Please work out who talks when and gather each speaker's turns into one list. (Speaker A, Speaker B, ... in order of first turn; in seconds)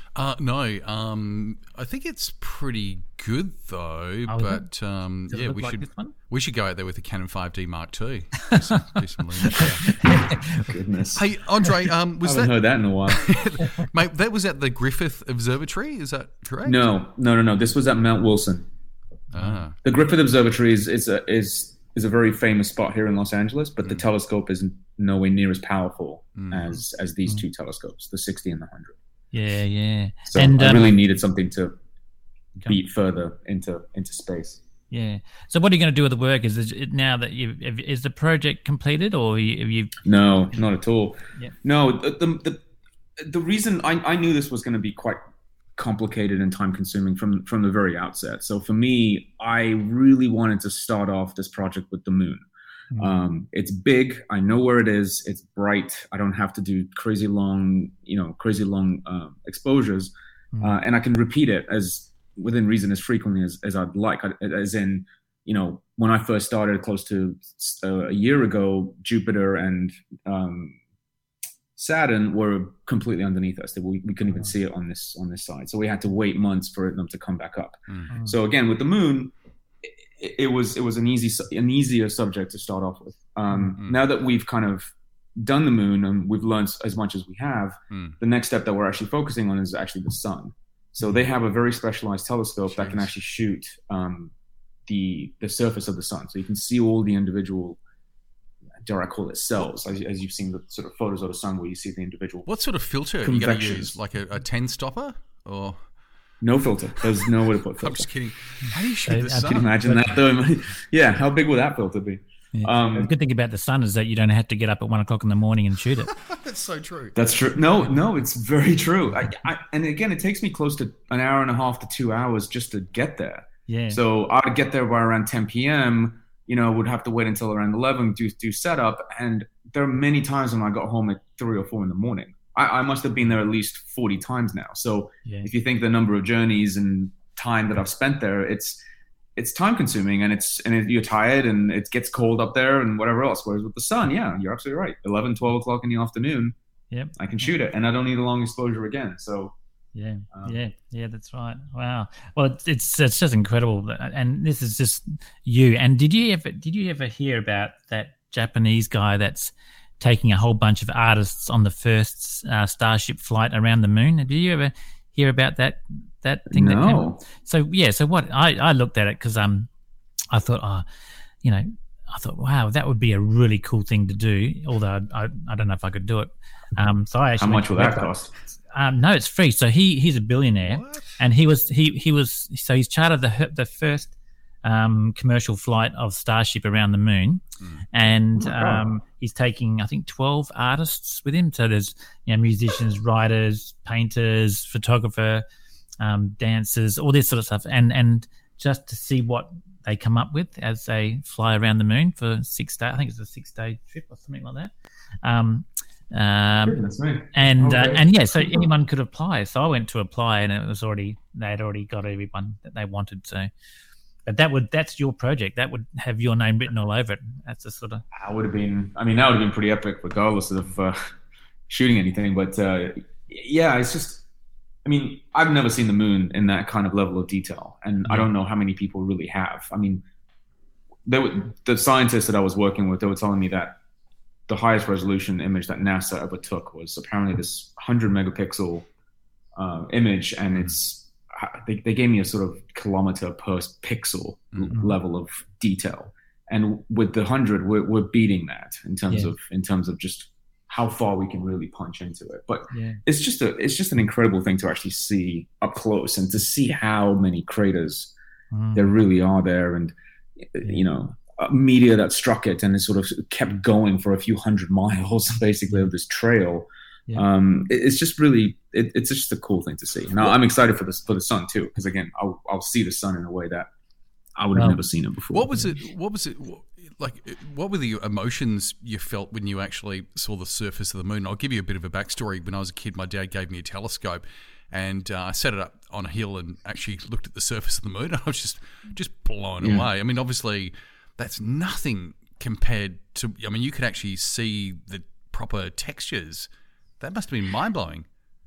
Speaker A: 0.1-9.9, 11.1-16.8, 19.3-19.8, 26.3-26.7, 87.9-88.2, 92.8-93.0, 102.5-105.8, 107.8-109.7, 116.1-117.2, 180.7-181.2, 187.6-187.8, 275.3-296.5, 297.0-298.1
Speaker B: 4.3-4.7, 5.3-6.1, 9.4-10.7, 29.3-30.9, 34.9-40.0, 78.1-78.4, 109.1-110.2, 112.5-116.1, 123.7-124.0, 135.2-135.5, 146.9-147.5, 149.9-169.7, 170.3-170.8, 171.4-178.1, 178.7-195.4, 196.0-204.7, 205.2-206.8, 207.3-213.5, 214.2-218.0, 252.7-253.0, 258.5-258.9, 274.5-274.8
Speaker C: 10.6-11.3, 12.2-13.2, 16.6-18.7, 19.8-29.0, 30.3-31.8, 32.6-34.6, 40.0-42.6, 43.2-45.2, 45.8-52.4, 53.0-70.8, 71.8-94.3, 94.9-97.8, 98.8-102.5, 103.2-103.9, 106.4-108.1, 109.4-113.1, 117.1-138.8, 139.3-146.5, 147.2-149.5, 150.3-150.6, 166.5-167.2, 177.4-178.3, 188.4-188.8, 206.6-208.7, 218.1-221.0, 221.7-224.2, 224.8-230.0, 231.0-233.8, 234.5-238.8, 239.5-258.1, 258.7-273.7, 274.4-275.6, 289.6-289.9